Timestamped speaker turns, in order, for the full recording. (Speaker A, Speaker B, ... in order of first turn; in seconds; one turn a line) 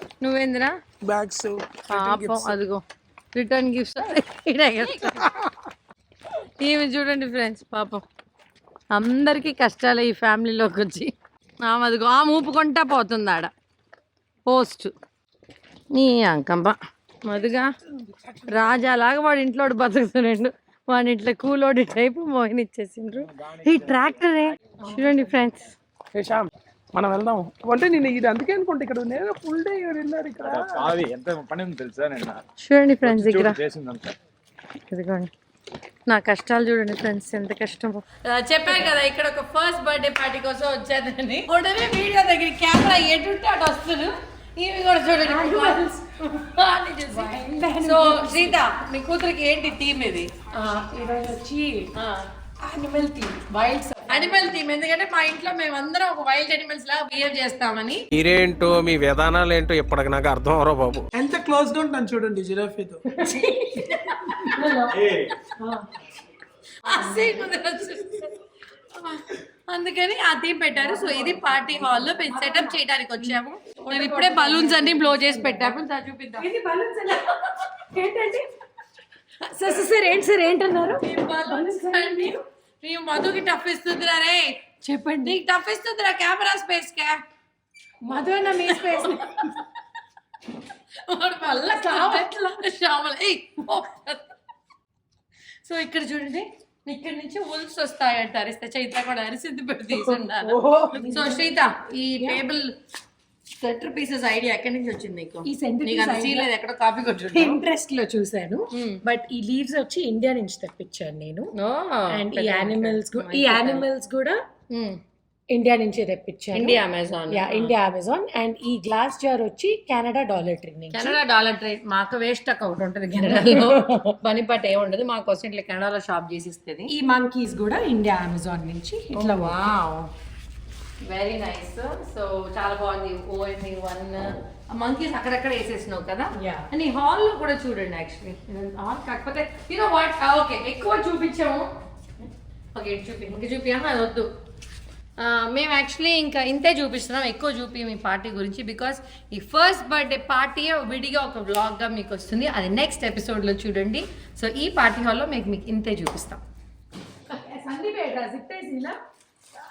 Speaker A: 0.2-0.8
Speaker B: 1.1-2.6
Speaker A: 1.9-5.5
Speaker A: 6.6-8.0
Speaker A: 8.9-11.1
Speaker A: 11.6-13.5
Speaker A: 14.5-14.9
Speaker A: 15.9-17.7
Speaker B: 18.1-18.8
Speaker A: 18.5-25.7
Speaker C: 23.2-24.5
Speaker D: 24.9-25.3
Speaker B: 26.1-30.9
Speaker C: 30.4-32.5
Speaker A: 32.6-33.6
Speaker C: 33.0-34.2
Speaker A: 34.9-35.3
Speaker A: 36.1-45.8
Speaker D: 45.2-46.5
Speaker A: 46.5-47.3
Speaker D: 47.1-48.6
Speaker A: 47.8-50.3
Speaker D: 50.5-51.9
Speaker A: 52.0-52.3
Speaker D: 52.6-54.6
Speaker A: 54.1-58.0
Speaker E: 58.1-61.1
Speaker B: 61.1-63.0
Speaker D: 63.1-65.0
Speaker A: 63.3-64.6
Speaker C: 64.9-65.3
Speaker D: 65.6-65.9
Speaker A: 66.8-68.3
Speaker D: 66.9-67.5
Speaker A: 69.0-76.5
Speaker D: 70.8-75.8
Speaker D: 76.4-78.5
Speaker D: 79.5-82.4
Speaker A: 81.0-87.2
Speaker D: 84.8-85.4
Speaker D: 88.0-89.5
Speaker A: 88.7-89.5
Speaker A: 91.1-94.2
Speaker D: 91.5-92.3
Speaker A: 95.7-102.8
Speaker B: 100.6-101.1
Speaker D: 100.7-101.5
Speaker A: 103.6-107.6
Speaker D: 105.5-106.5
Speaker D: 107.3-111.5
Speaker A: 108.7-109.0
Speaker A: 111.5-113.8
Speaker D: 112.1-114.4
Speaker A: 114.7-115.0
Speaker D: 115.5-121.2
Speaker A: 116.5-117.8
Speaker A: 120.9-126.9
Speaker D: 123.3-124.1
Speaker D: 126.9-129.6
Speaker A: 129.2-130.1
Speaker A: 131.1-141.7
Speaker D: 136.4-136.7
Speaker A: 142.8-144.3
Speaker A: 145.2-156.4
Speaker D: 157.3-159.0